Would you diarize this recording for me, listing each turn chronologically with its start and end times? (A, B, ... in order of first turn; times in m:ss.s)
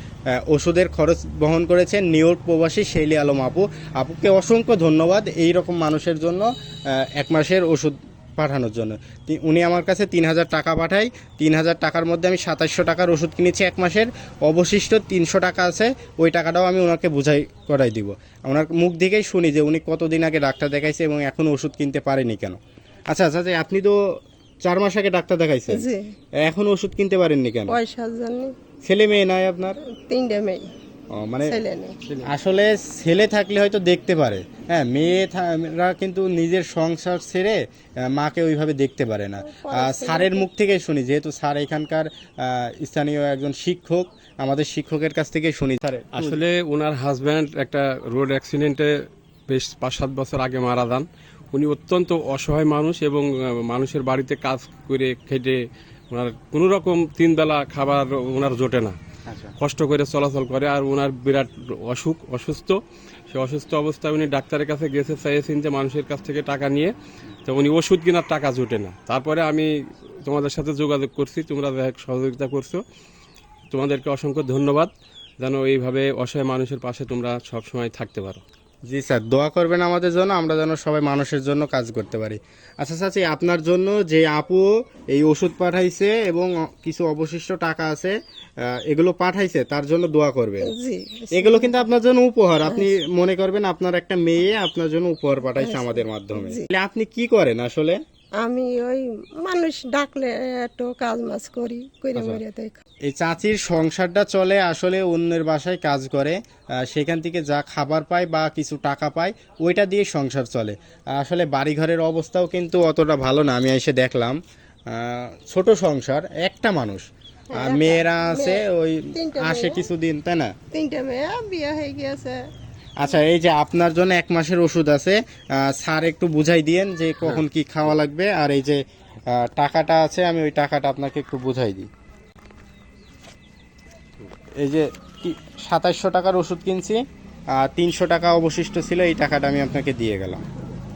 0:00.4-0:06.5 A
0:07.2-0:22.6 A
0:23.1-0:24.0 A
0:24.6-0:25.9 A
0:25.7-0:26.1 B
0:26.4-0:27.8 A
0:27.7-0:28.6 B
0:28.8-0:29.8 A
0:29.8-0:30.7 B
0:31.2-0:31.6 A
0:31.4-0:32.0 B
0:32.0-0:32.3 C
0:32.2-0:46.4 A
0:39.5-0:40.4 B
0:46.1-0:48.9 C
0:49.5-0:55.6 C
0:56.1-0:59.0 C
0:59.3-0:59.5 A
0:59.6-1:06.9 C
1:07.4-1:09.7 C
1:10.2-1:12.8 C
1:13.7-1:18.4 C
1:18.9-1:28.2 A
1:28.7-1:30.7 A
1:30.7-1:31.7 B
1:31.4-1:38.0 A
1:35.6-1:36.6 B
1:38.4-1:42.8 B
1:42.2-1:42.4 A
1:43.1-1:54.4 A
1:54.9-2:00.5 A
1:57.5-1:58.6 B
1:59.2-1:59.9 B
2:00.7-2:02.4 B
2:03.0-2:11.9 A
2:14.6-2:17.0 A
2:17.6-2:20.4 A